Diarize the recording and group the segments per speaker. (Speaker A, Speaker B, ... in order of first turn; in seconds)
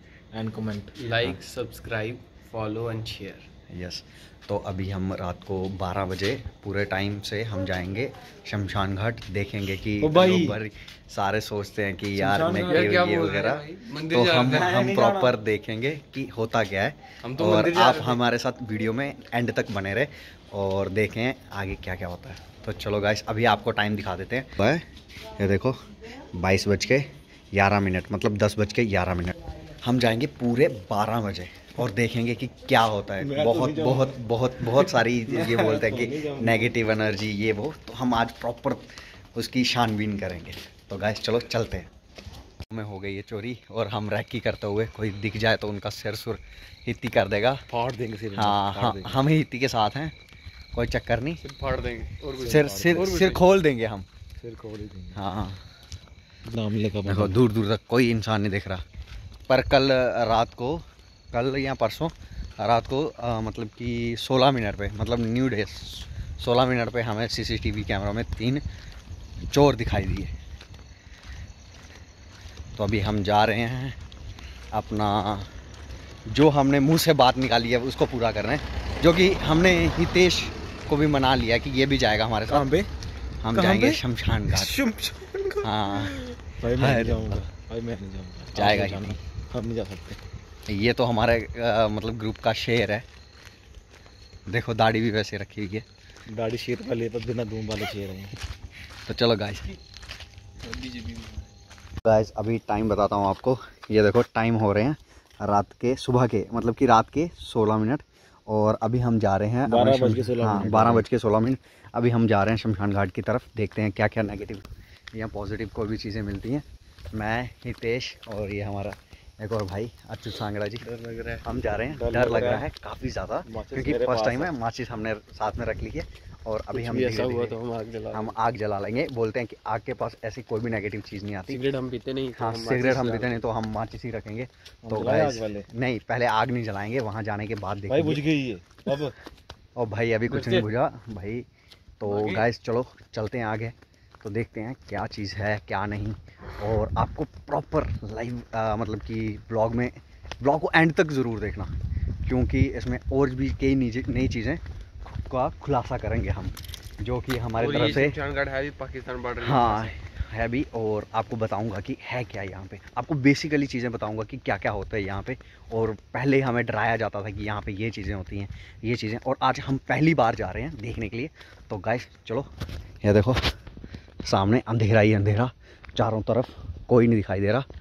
Speaker A: 0.3-1.0, 10.0-10.6, 12.2-13.0, 14.6-15.4, 33.2-36.7, 47.7-49.2, 52.4-53.2, 54.4-55.2, 56.5-57.4, 82.5-82.9, 83.5-90.2, 96.3-98.3, 109.7-111.1, 121.9-122.7, 123.5-124.5, 134.9-135.7, 137.9-139.2
Speaker B: 1.0-3.5, 12.7-14.8, 17.2-18.2, 51.4-53.4, 100.6-101.5, 120.8-121.4, 126.7-128.4, 131.5-133.4, 140.3-140.7, 142.1-142.5, 157.6-159.9
Speaker C: 3.7-24.9, 25.4-25.8, 26.3-41.9, 42.7-47.6, 48.4-50.1, 50.7-51.4, 52.5-54.1, 55.1-55.6, 57.1-58.8, 59.5-68.6, 69.5-70.3, 72.8-74.0, 74.7-75.5, 76.3-82.7, 83.4-84.8, 85.6-86.2, 86.8-87.5, 88.5-89.2, 90.7-93.0, 94.5-95.8, 99.1-99.7, 102.0-114.6, 115.1-120.9, 121.4-127.6, 128.1-131.6, 132.3-138.2, 139.8-141.5, 142.0-151.7, 152.2-158.2, 159.4-172.5, 173.0-173.5, 174.2-177.7